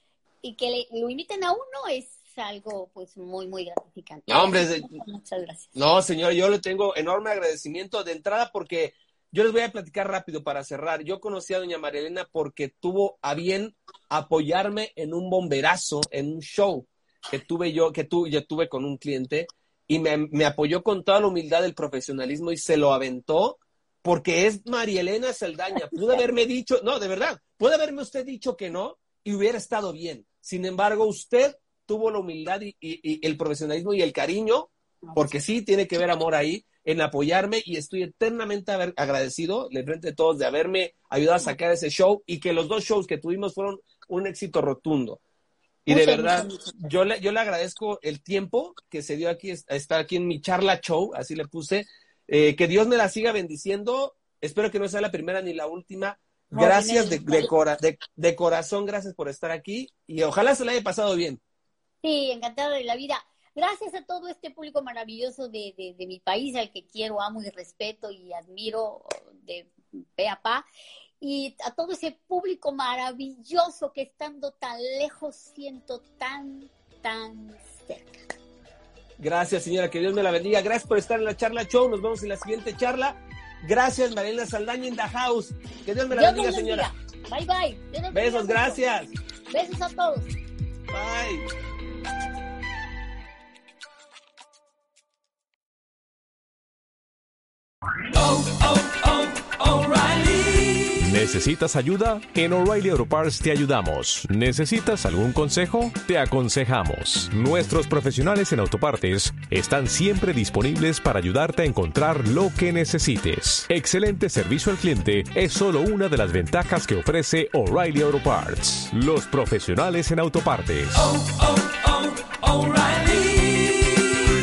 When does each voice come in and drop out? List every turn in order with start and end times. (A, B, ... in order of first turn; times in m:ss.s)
0:00.4-0:05.7 A
0:04.3-0:04.9 B
0:05.7-0:45.2 B
0:35.0-0:35.4 A
0:45.8-1:01.4 B
0:45.9-0:46.7 A
0:56.5-0:57.5 A
1:02.0-1:10.6 A
1:11.2-1:18.2 A
1:19.2-1:26.9 B
1:26.1-1:28.8 A
1:28.1-1:29.1 B
1:29.5-1:30.3 A
1:30.9-1:31.4 B
1:38.2-1:40.9 B
1:41.0-2:01.2 C
2:01.2-2:03.5 B